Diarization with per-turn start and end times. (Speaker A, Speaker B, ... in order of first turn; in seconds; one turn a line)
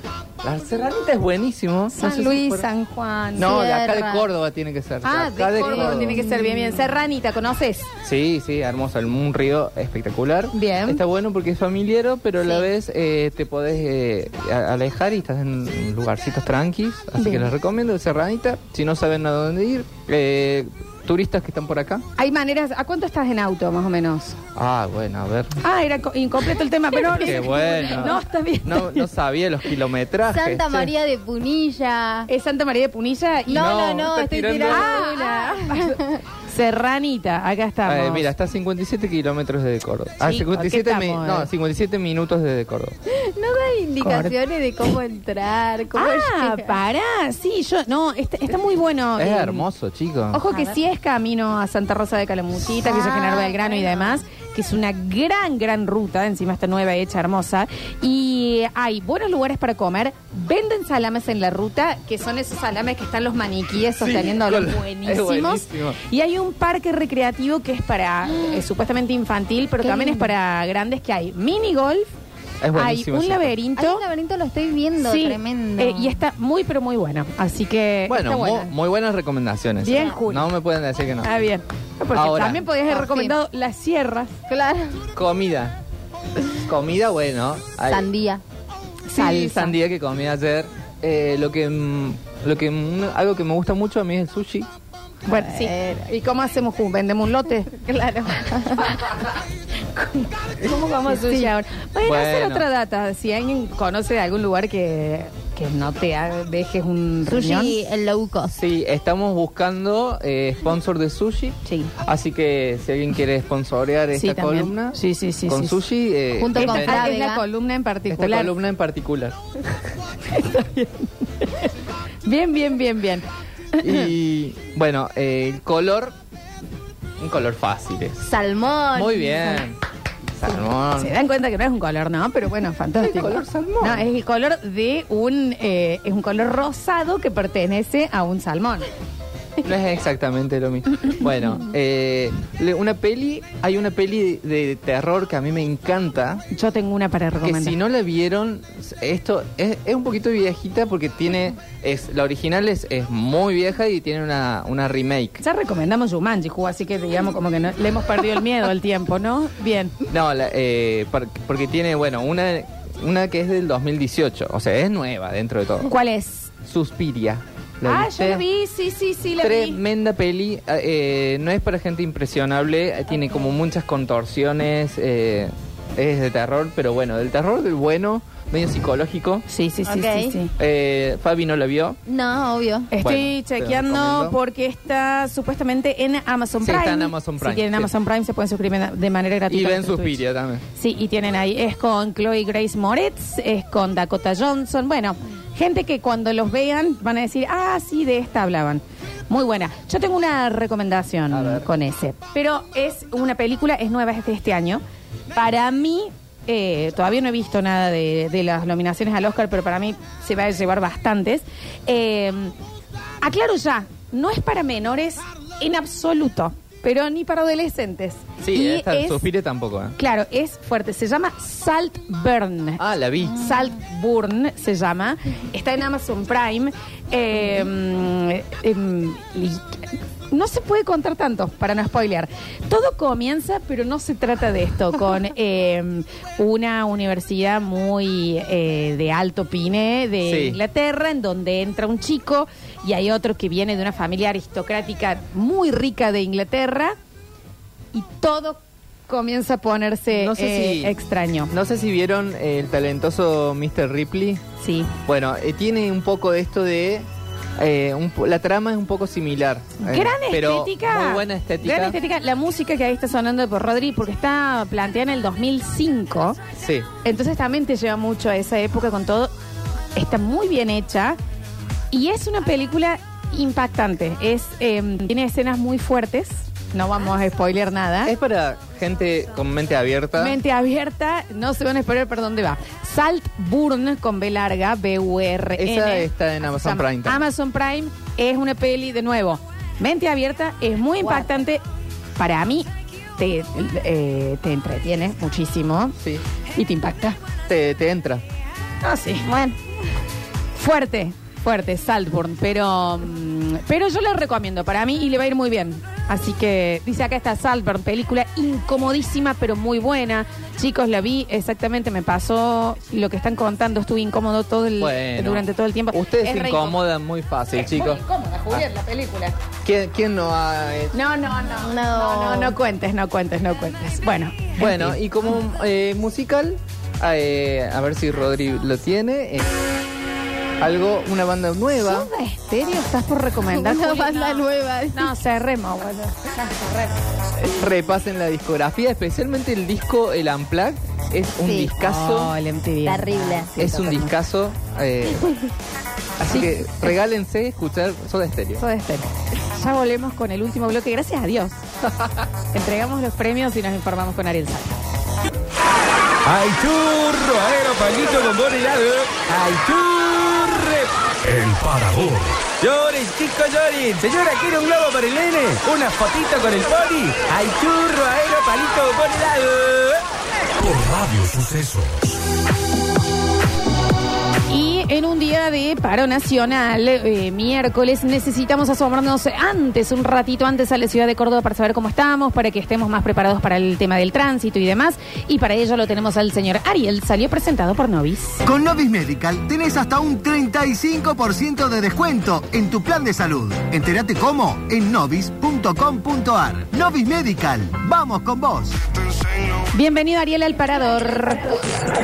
Speaker A: 0.4-2.6
Speaker B: 1.9-3.5
Speaker A: 3.4-6.2
Speaker C: 3.4-4.3
Speaker B: 5.0-7.9
Speaker C: 5.6-6.8
Speaker A: 8.0-22.0
Speaker B: 10.5-11.0
Speaker B: 17.2-17.5
Speaker B: 22.2-24.4
Speaker A: 24.5-25.6
Speaker B: 25.6-29.1
Speaker A: 27.1-30.9
Speaker C: 30.3-32.3
Speaker B: 32.3-33.8
Speaker A: 33.5-34.9
Speaker C: 33.5-36.2
Speaker B: 34.6-38.3
Speaker A: 37.8-43.0
Speaker B: 40.2-41.5
Speaker C: 43.1-46.8
Speaker B: 44.0-44.3
Speaker B: 45.9-49.6
Speaker A: 49.2-50.4
Speaker B: 50.3-72.1
Speaker C: 50.5-50.8
Speaker C: 52.8-54.1
Speaker A: 64.0-66.0
Speaker C: 69.8-70.3
Speaker A: 72.6-73.5
Speaker B: 72.7-74.0
Speaker C: 73.7-76.2
Speaker B: 75.0-78.7
Speaker A: 78.1-81.3
Speaker B: 79.8-80.5
Speaker B: 81.2-84.4
Speaker A: 82.1-82.7
Speaker C: 82.9-83.3
Speaker C: 84.5-85.0
Speaker A: 85.1-85.8
Speaker A: 86.5-88.1
Speaker C: 87.9-88.4
Speaker B: 89.1-89.8
Speaker A: 89.1-94.7
Speaker B: 95.2-97.7
Speaker C: 95.4-96.1
Speaker C: 97.7-98.9
Speaker B: 98.8-99.2
Speaker B: 99.9-107.8
Speaker C: 101.0-101.5
Speaker A: 102.0-102.7
Speaker C: 107.3-108.5
Speaker A: 108.5-117.2
Speaker B: 114.1-115.8
Speaker C: 116.4-117.4
Speaker B: 116.5-118.5
Speaker A: 118.1-119.6
Speaker B: 120.3-121.7
Speaker B: 122.2-124.0
Speaker A: 123.8-126.1
Speaker A: 127.2-128.3
Speaker C: 128.2-129.6
Speaker A: 128.9-129.8
Speaker A: 130.4-131.1
Speaker B: 131.0-138.9
Speaker A: 133.0-134.1
Speaker A: 139.6-146.4
Speaker B: 146.5-147.8
Speaker A: 147.4-155.4
Speaker B: 155.4-159.9
Speaker A: 160.1-165.9
Speaker B: 165.8-166.5
Speaker A: 166.6-168.4
Speaker B: 167.8-169.8
Speaker A: 169.4-179.4
Speaker B: 179.5-180.5
Speaker C: 179.8-180.4
Speaker A: 180.6-182.0
Speaker C: 182.1-182.9
Speaker B: 182.9-190.2
Speaker A: 183.0-184.3
Speaker A: 186.6-187.9
Speaker A: 189.5-190.6
Speaker B: 190.7-204.8
Speaker A: 201.3-201.7
Speaker B: 205.3-212.5
Speaker B: 213.2-219.2
Speaker A: 218.4-219.9
Speaker B: 220.0-246.9
Speaker A: 222.8-223.4
Speaker A: 240.2-240.6
Speaker B: 247.9-251.5
Speaker A: 250.1-250.9
Speaker A: 251.5-254.4
Speaker B: 254.6-254.9
Speaker A: 255.0-257.1
Speaker A: 257.6-262.0
Speaker B: 259.8-266.4
Speaker A: 266.6-266.9
Speaker B: 267.0-269.3
Speaker B: 269.9-271.2
Speaker B: 271.9-278.1
Speaker A: 278.0-280.4
Speaker B: 280.1-291.6
Speaker A: 285.6-287.2
Speaker C: 291.0-291.4
Speaker B: 292.2-295.9
Speaker B: 296.5-297.2
Speaker A: 297.5-298.2
Speaker B: 298.8-299.3
Speaker C: 299.2-299.6
Speaker B: 300.5-316.8
Speaker A: 314.8-318.6
Speaker B: 317.5-319.4
Speaker A: 319.6-320.9
Speaker B: 320.9-325.0
Speaker C: 321.6-322.6
Speaker A: 324.6-329.5
Speaker A: 330.6-332.1
Speaker B: 331.7-337.0
Speaker C: 333.5-335.1
Speaker A: 337.4-342.3
Speaker C: 341.4-341.7
Speaker B: 341.8-344.1
Speaker C: 342.8-343.5
Speaker A: 343.6-345.5
Speaker A: 346.2-348.6
Speaker B: 346.2-346.9
Speaker B: 348.6-351.6
Speaker B: 352.5-354.8
Speaker D: 356.2-360.9
Speaker E: 361.2-362.4
Speaker D: 362.5-369.9
Speaker E: 370.6-372.1
Speaker B: 374.5-388.4
Speaker F: 388.4-398.8
Speaker B: 399.7-401.6